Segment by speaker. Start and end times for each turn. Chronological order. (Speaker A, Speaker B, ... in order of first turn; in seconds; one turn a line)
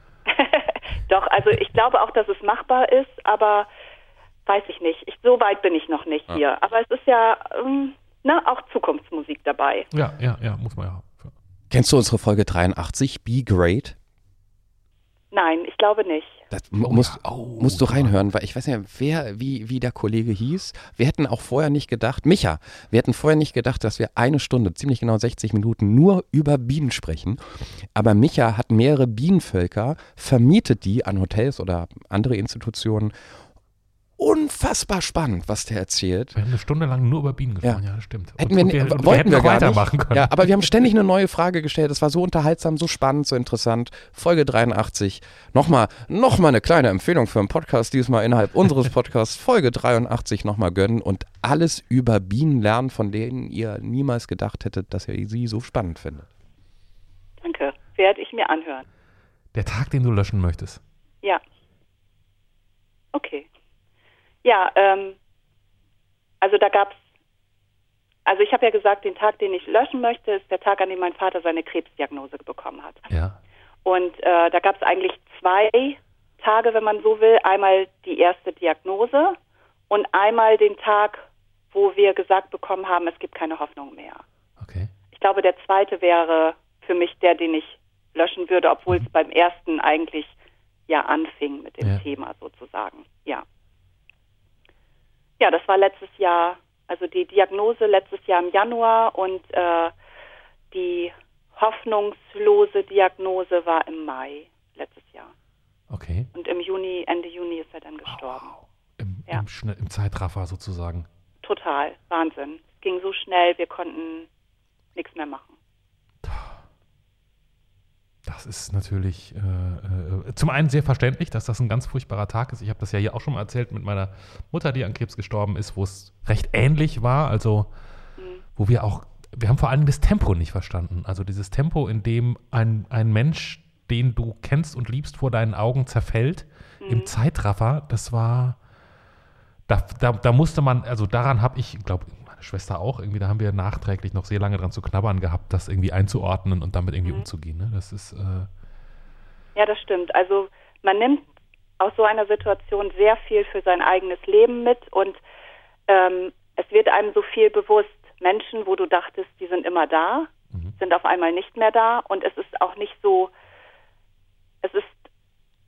Speaker A: 0.3-3.7
Speaker A: 4.5-9.9
Speaker B: 9.9-11.3
Speaker C: 11.7-13.9
Speaker A: 15.3-16.4
Speaker C: 16.5-27.4
Speaker B: 16.8-18.2
Speaker C: 27.9-33.1
Speaker C: 34.2-36.4
Speaker B: 36.4-40.6
Speaker C: 38.4-56.3
Speaker A: 57.4-58.8
Speaker B: 59.5-60.8
Speaker A: 63.1-63.5
Speaker A: 64.4-65.2
Speaker A: 66.4-67.0
Speaker A: 68.2-73.0
Speaker B: 73.1-73.4
Speaker A: 73.8-79.3
Speaker A: 79.9-84.2
Speaker B: 84.6-84.9
Speaker A: 85.1-90.3
Speaker A: 90.9-93.4
Speaker A: 95.4-99.9
Speaker A: 100.7-105.3
Speaker B: 105.9-106.3
Speaker A: 106.3-108.5
Speaker B: 108.1-111.1
Speaker A: 111.4-114.3
Speaker A: 114.9-115.5
Speaker B: 116.2-116.6
Speaker B: 118.2-127.7
Speaker A: 128.2-128.4
Speaker B: 128.6-138.6
Speaker A: 136.8-137.1
Speaker B: 139.7-148.5
Speaker A: 149.6-151.2
Speaker A: 151.8-155.2
Speaker A: 155.9-163.3
Speaker A: 164.6-165.0